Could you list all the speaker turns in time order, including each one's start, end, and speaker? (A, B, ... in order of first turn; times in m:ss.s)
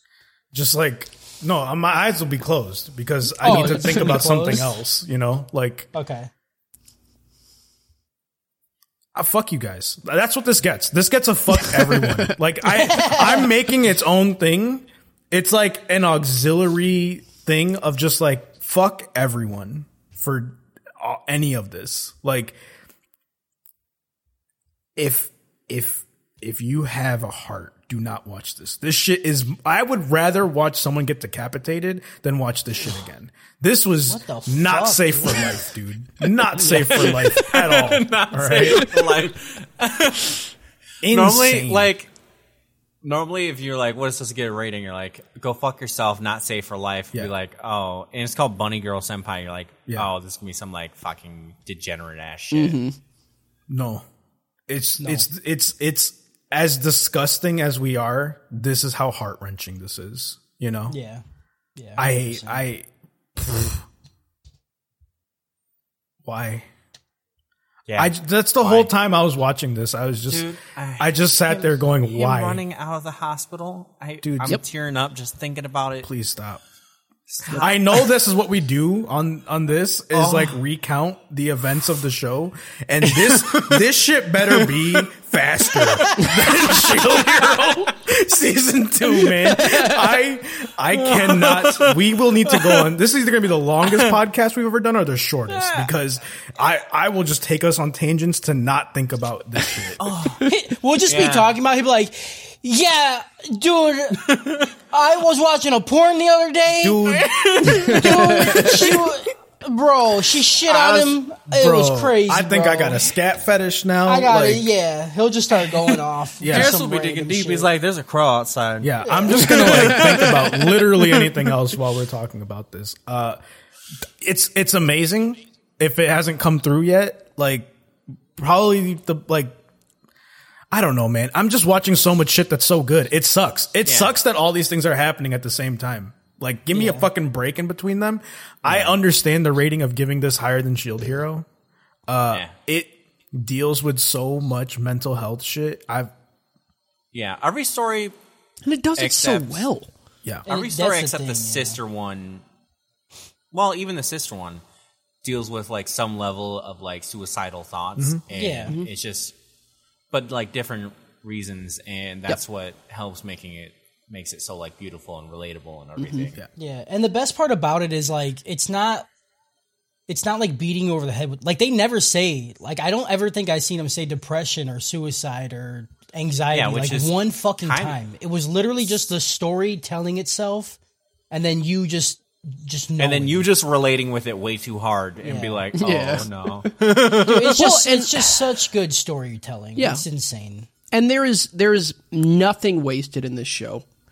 0:00.5-0:05.9 A
0:03.4-0:04.8 B
0:05.9-0:06.3 B
0:09.1-0:22.6 A
0:11.8-0:12.3 C
0:12.7-0:13.5 B
0:25.0-0:38.9 A
0:34.1-0:35.6 B
0:36.5-0:40.4 D
0:41.0-0:41.9 A
0:41.0-0:42.1 D
0:43.0-0:52.8 D
0:52.5-0:53.0 C
0:53.7-0:54.0 A
0:54.7-1:01.0 A
0:55.0-0:55.3 B
1:00.9-1:01.2 B
1:01.8-1:02.6 B
1:02.0-1:03.8 A
1:06.2-1:06.7 A
1:07.9-1:08.9 D
1:08.0-1:10.5 A
1:10.3-1:16.1 D
1:11.0-1:12.6 A
1:14.2-1:14.6 A
1:16.0-1:16.6 A
1:17.3-1:18.1 D
1:17.5-1:40.0 A
1:20.1-1:20.6 D
1:23.0-1:23.8 D
1:24.5-1:25.0 D
1:25.8-1:27.7 D
1:29.5-1:30.2 C
1:30.9-1:32.9 D
1:33.8-1:34.2 D
1:35.5-1:35.9 D
1:40.0-1:40.4 D
1:40.4-1:44.3 B
1:41.1-1:41.5 D
1:44.2-1:44.7 D
1:44.9-1:47.1 B
1:46.7-1:48.8 A
1:47.1-1:48.1 D
1:47.7-1:48.7 C
1:47.7-1:53.1 B
1:50.7-1:54.7 A
1:54.0-1:57.7 B
1:56.4-1:56.7 A
1:56.4-2:01.4 D
1:58.8-2:03.4 A
1:59.0-1:59.6 B
1:59.7-2:00.3 C
2:04.2-2:07.7 A
2:08.4-2:09.6 A
2:10.7-2:21.4 A
2:13.8-2:14.2 D
2:16.7-2:17.1 B
2:18.6-2:19.0 D
2:22.1-2:26.1 A
2:27.1-2:28.1 D
2:28.6-2:29.9 C
2:29.0-2:29.6 D
2:30.4-2:32.4 D
2:30.5-2:31.8 B
2:33.5-2:34.6 D
2:35.2-2:39.3 D
2:38.0-2:38.2 A
2:38.3-2:38.8 B
2:40.1-2:46.4 D
2:46.0-2:46.3 C
2:46.6-2:49.1 B
2:50.1-3:00.8 B
2:56.5-2:58.0 D
3:01.3-3:03.5 B
3:03.0-3:07.6 D
3:05.2-3:05.7 B
3:05.7-3:08.4 C
3:07.2-3:10.7 B
3:09.8-3:10.0 C
3:10.9-3:13.8 C